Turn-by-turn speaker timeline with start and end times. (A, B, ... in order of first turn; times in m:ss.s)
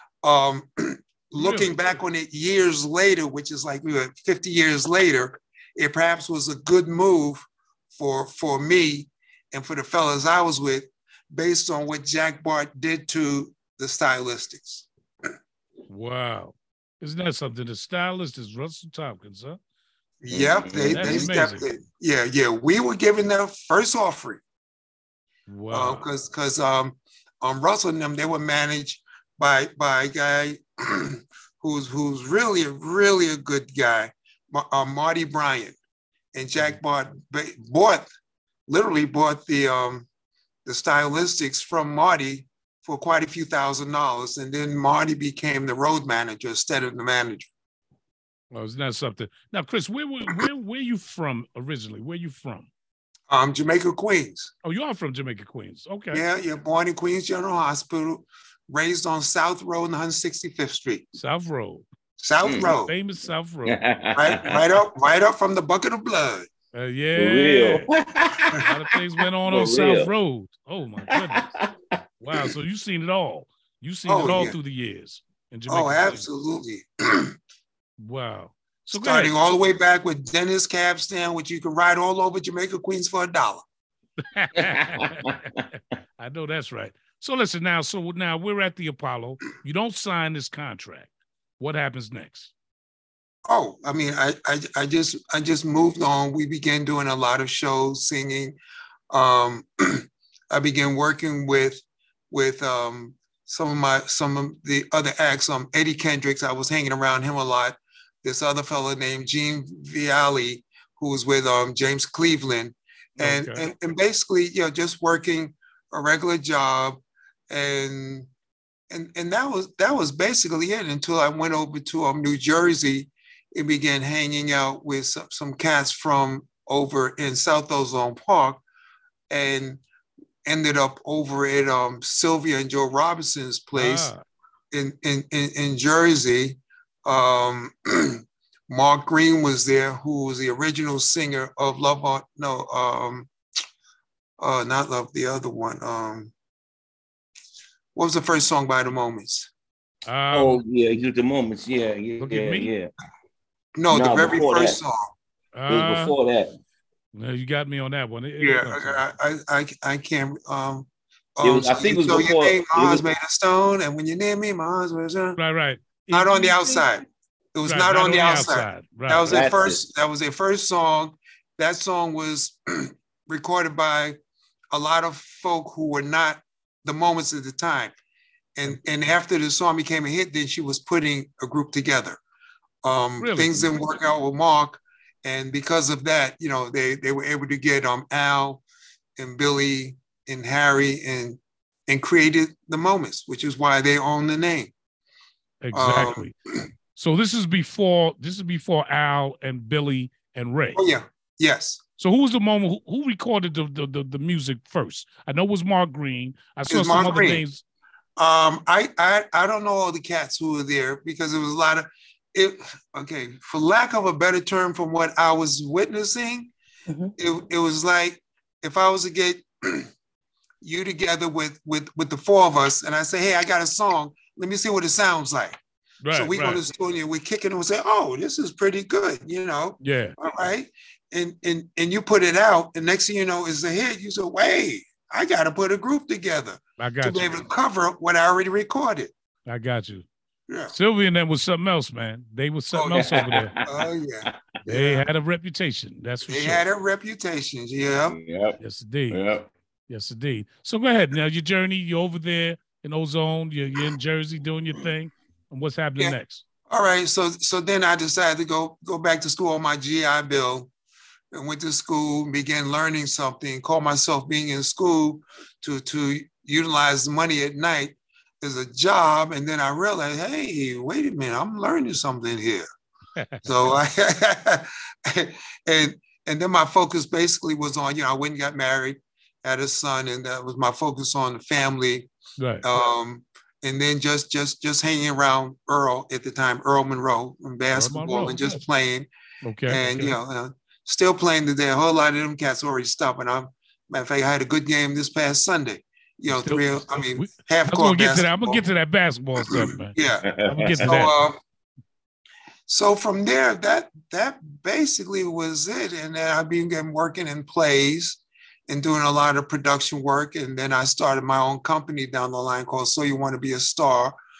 0:00.2-0:14.8 A
0:01.4-0:01.8 B
0:15.9-0:19.6 B
0:20.2-0:24.4 A
0:20.3-0:21.3 C
0:20.9-0:21.7 B
0:25.5-0:26.0 B
0:25.7-0:35.7 A
0:36.3-0:38.1 A
0:38.7-0:40.0 A
0:40.6-0:47.5 A
0:48.5-0:52.7 B
0:53.3-0:54.5 A
0:54.6-0:56.2 B
0:56.1-1:01.0 A
1:01.1-1:01.8 B
1:02.2-1:02.9 A
1:02.4-1:02.8 C
1:02.6-1:03.8 B
1:03.6-1:04.6 C
1:04.2-1:06.5 A
1:06.7-1:07.9 B
1:07.1-1:10.1 C
1:08.7-1:11.5 B
1:11.1-1:12.4 C
1:12.2-1:16.2 B
1:14.1-1:14.5 A
1:15.7-1:17.3 A
1:18.0-1:19.3 B
1:18.9-1:23.6 A
1:24.2-1:32.5 B
1:24.6-1:25.0 C
1:33.5-1:38.6 A
1:39.1-1:57.0 A
1:53.2-1:53.6 B
1:57.5-1:58.3 A
1:58.9-2:08.6 A
2:09.3-2:09.8 A
2:10.4-2:14.1 A
2:13.7-2:14.2 B
2:14.7-2:23.3 A
2:24.4-2:26.3 A
2:28.0-2:29.5 A
2:30.0-2:30.6 B
2:30.3-2:32.9 C
2:32.2-2:32.7 B
2:33.8-2:35.1 A
2:33.9-2:34.8 C
2:35.5-2:36.1 B
2:35.7-2:36.5 C
2:37.1-2:39.0 B
2:38.4-2:45.4 A
2:41.4-2:43.0 C
2:45.4-2:46.8 B
2:46.1-2:47.0 A
2:47.5-2:54.2 A
2:47.6-2:49.3 B
2:49.3-2:49.8 C
2:54.7-2:57.9 A
2:58.6-3:02.2 A
3:02.8-3:08.6 A
3:03.2-3:03.7 B
3:09.2-3:14.7 A
3:15.6-3:16.3 B
3:15.7-3:16.3 A
3:16.9-3:20.8 B
3:20.7-3:21.8 A
3:22.0-3:27.6 B
3:26.7-3:27.4 A
3:28.2-3:36.5 A
3:37.2-3:39.9 A
3:40.6-3:45.6 A
3:46.0-3:46.6 B
3:46.1-3:59.1 A
3:49.8-3:50.2 B
3:56.8-3:57.4 B
3:59.4-4:00.0 B
4:00.5-4:00.7 A
4:00.7-4:03.6 B
4:02.7-4:03.1 A
4:03.0-4:03.7 C
4:03.6-4:05.0 A
4:04.7-4:06.6 B
4:06.3-4:08.2 A
4:08.1-4:08.6 C
4:08.6-4:09.2 B
4:09.1-4:09.5 C
4:09.9-4:16.4 B
4:16.7-4:20.7 A
4:21.3-4:32.6 A
4:33.2-4:33.5 B
4:33.4-4:42.1 A
4:42.4-4:42.7 B
4:42.6-4:49.1 A
4:47.7-4:48.6 B
4:49.4-4:50.2 B
4:49.7-4:58.6 A
4:56.3-5:01.2 B
4:59.4-5:01.4 A
5:00.2-5:01.0 C
5:02.7-5:14.2 A